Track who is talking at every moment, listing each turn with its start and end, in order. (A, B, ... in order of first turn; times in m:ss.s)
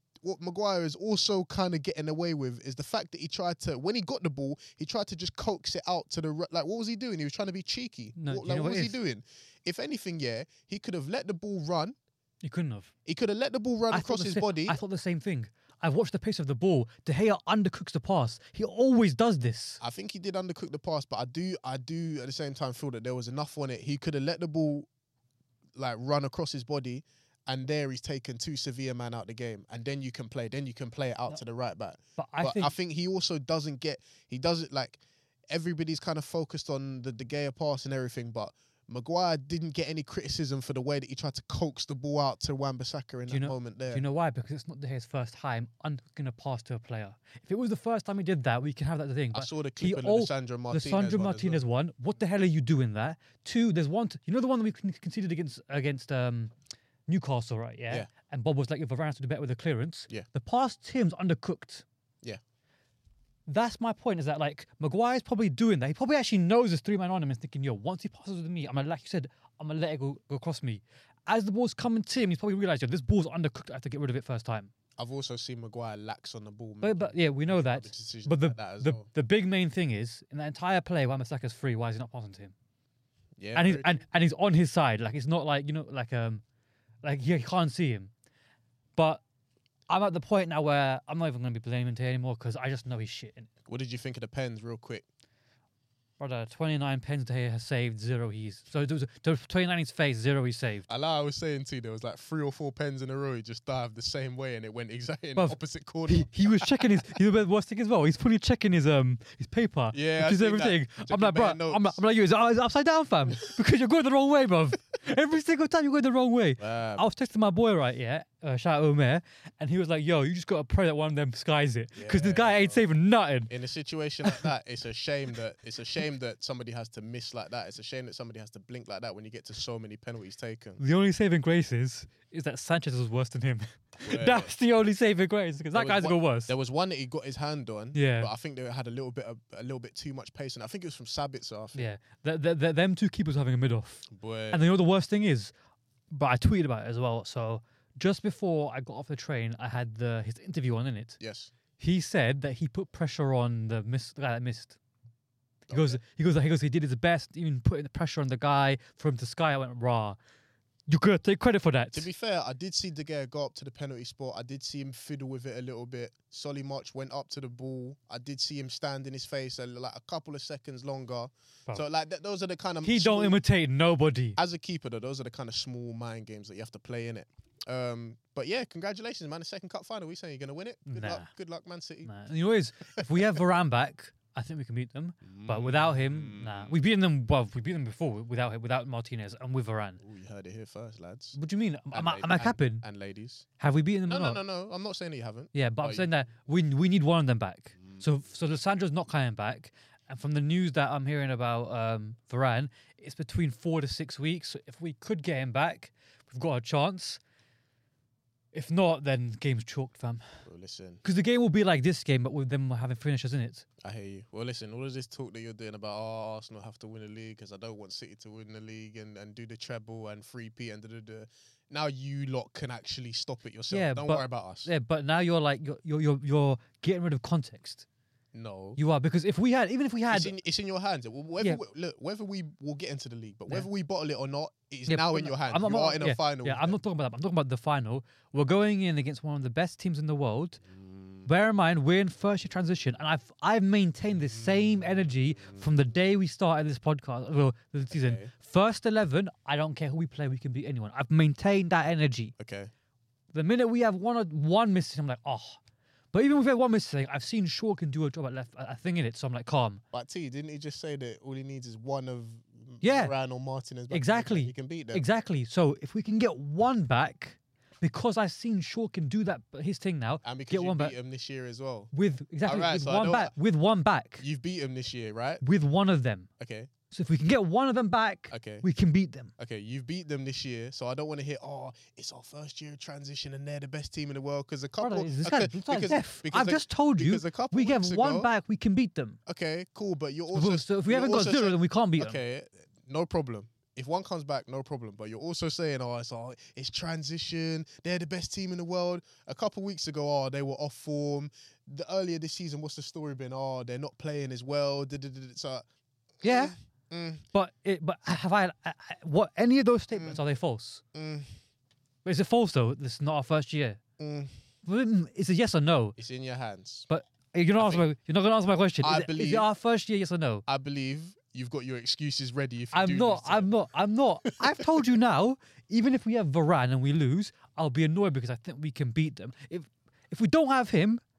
0:00.2-0:12.0 A
0:08.2-0:09.0 B
0:12.4-0:12.9 B
0:13.1-0:14.8 A
0:13.9-0:19.8 B
0:19.8-0:24.9 A
0:25.8-0:44.0 A
0:32.2-0:32.7 B
0:43.3-0:56.5 B
0:49.3-0:51.6 A
0:57.1-1:01.8 B
1:03.5-1:14.7 B
1:15.0-1:19.1 A
1:16.8-1:22.5 B
1:23.4-1:24.0 A
1:23.6-1:26.4 B
1:27.0-1:28.1 B
1:29.0-1:29.2 B
1:29.9-1:33.5 B
1:33.7-1:35.0 A
1:36.2-1:40.9 B
1:40.9-1:46.9 A
1:45.4-2:03.5 B
1:49.9-1:52.0 A
1:56.6-1:57.0 A
2:02.0-2:02.8 A
2:03.5-2:10.8 A
2:10.8-2:16.5 B
2:14.0-2:14.5 A
2:15.7-2:21.9 A
2:17.9-2:18.3 B
2:21.8-2:25.5 B
2:24.1-2:24.6 A
2:26.1-2:31.2 B
2:31.2-2:31.5 A
2:31.8-2:34.8 B
2:35.7-2:36.0 A
2:35.7-2:40.2 B
2:40.9-2:42.1 B
2:41.9-2:53.4 A
2:52.8-2:54.4 B
2:54.4-3:02.1 A
3:00.9-3:01.3 B
3:02.0-3:10.0 B
3:05.2-3:06.8 A
3:10.0-3:11.4 A
3:11.4-3:12.8 B
3:11.9-3:13.5 A
3:13.6-3:14.4 B
3:14.1-3:16.1 A
3:15.5-3:27.2 B
3:28.5-3:30.3 B
3:30.5-3:31.0 A
3:31.0-3:33.7 B
3:33.8-3:44.7 A
3:43.7-3:47.9 B
3:48.3-3:48.8 A
3:48.8-3:50.3 B
3:50.1-3:56.8 A
3:54.9-4:00.6 B
4:00.8-4:01.3 A
4:01.2-4:12.3 B
4:04.3-4:05.6 A
4:07.9-4:08.3 A
4:12.4-4:12.7 A
4:13.3-4:15.6 B
4:16.1-4:19.8 B
4:19.9-4:25.0 A
4:22.8-4:23.1 B
4:23.9-4:31.0 B
4:30.2-4:31.9 A
4:31.9-4:34.2 B
4:32.4-4:33.3 A
4:34.2-4:35.4 A
4:35.4-4:36.3 B
4:36.4-4:36.7 A
4:36.9-4:39.3 B
4:38.3-4:38.6 A
4:39.4-4:48.3 A
4:44.8-4:49.2 B
4:49.3-5:05.6 A
4:50.3-4:52.2 B
5:06.2-5:07.2 A
5:06.2-5:06.6 B
5:07.3-5:10.8 B
5:09.9-5:10.2 A
5:10.9-5:11.3 A
5:12.0-5:13.8 B
5:14.0-5:14.3 A
5:14.6-5:16.0 B
5:16.0-5:16.9 A
5:16.9-5:20.4 B
5:17.6-5:17.8 A
5:18.8-5:19.5 A
5:20.5-5:23.5 A
5:22.7-5:31.0 B
5:24.4-5:24.8 A